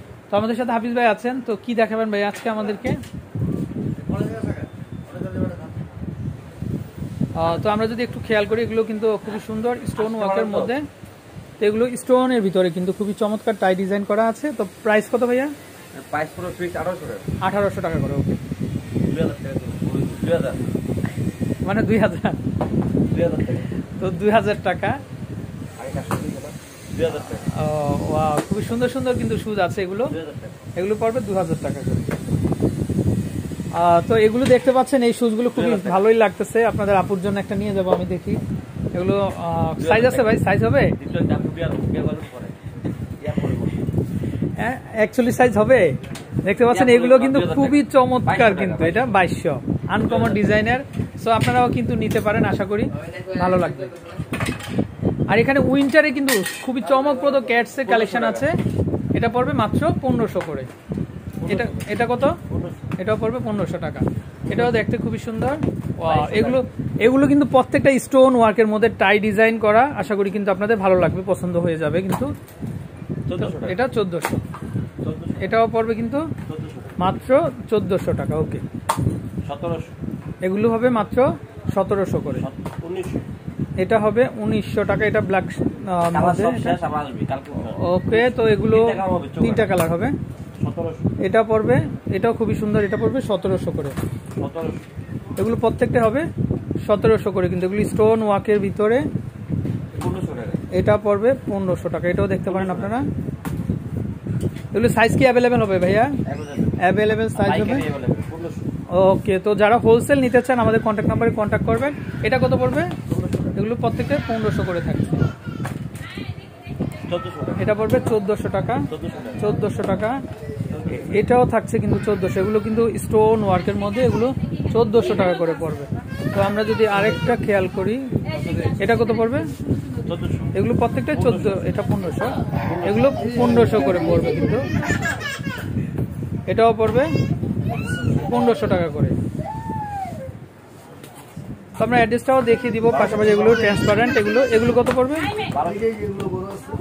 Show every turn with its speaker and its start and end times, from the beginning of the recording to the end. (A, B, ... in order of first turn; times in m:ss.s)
0:00.3-0:03.0 A
0:04.2-0:04.5 B
0:05.3-0:05.6 B
0:07.4-0:10.8 A
0:10.0-0:10.7 B
0:11.6-0:15.5 A
0:15.9-0:17.2 B
0:17.4-0:18.4 A
0:19.0-0:20.6 B
0:21.6-0:22.4 A
0:23.1-0:23.7 B
0:24.0-0:25.0 A
0:25.8-0:27.5 B
0:27.5-0:30.2 A
0:30.1-0:30.6 B
0:30.8-0:32.2 A
0:33.7-0:38.4 A
0:35.4-0:36.1 B
0:38.9-0:41.0 A
0:39.8-0:40.4 B
0:41.0-0:42.6 B
0:43.2-0:43.9 B
0:44.6-0:54.0 A
0:46.7-0:49.2 B
0:50.0-0:50.4 B
0:55.3-0:58.6 A
0:57.0-0:58.5 B
0:59.2-1:00.7 A
1:01.4-1:02.8 B
1:01.5-1:02.4 A
1:03.0-1:12.3 A
1:04.5-1:04.7 B
1:06.0-1:06.6 B
1:13.3-1:13.8 B
1:13.4-1:14.4 A
1:15.0-1:15.5 B
1:15.4-1:16.3 A
1:16.5-1:17.1 B
1:17.0-1:18.6 A
1:19.4-1:19.9 B
1:20.4-1:22.5 A
1:22.3-1:23.2 B
1:23.8-1:26.8 A
1:26.1-1:29.7 B
1:27.7-1:30.1 A
1:30.6-1:31.1 B
1:31.2-1:34.0 A
1:34.4-1:34.8 B
1:35.4-1:36.3 A
1:36.8-1:39.1 A
1:40.0-1:40.6 B
1:40.7-1:43.1 A
1:42.5-1:43.0 B
1:44.7-1:46.2 A
1:46.3-1:46.8 B
1:46.8-1:47.9 A
1:47.4-1:48.7 B
1:48.9-1:53.0 A
1:53.1-1:53.6 B
1:53.6-1:55.2 A
1:57.1-1:57.6 B
1:57.6-1:58.9 A
1:58.9-1:59.5 B
1:59.4-2:00.2 A
2:00.7-2:01.2 B
2:01.0-2:08.1 A
2:08.8-2:09.5 A
2:10.1-2:10.5 B
2:10.5-2:14.7 A
2:11.1-2:11.6 B
2:12.7-2:13.3 B
2:16.5-2:17.1 A
2:18.2-2:19.2 A
2:21.8-2:25.3 A
2:23.1-2:23.5 B
2:25.5-2:26.3 B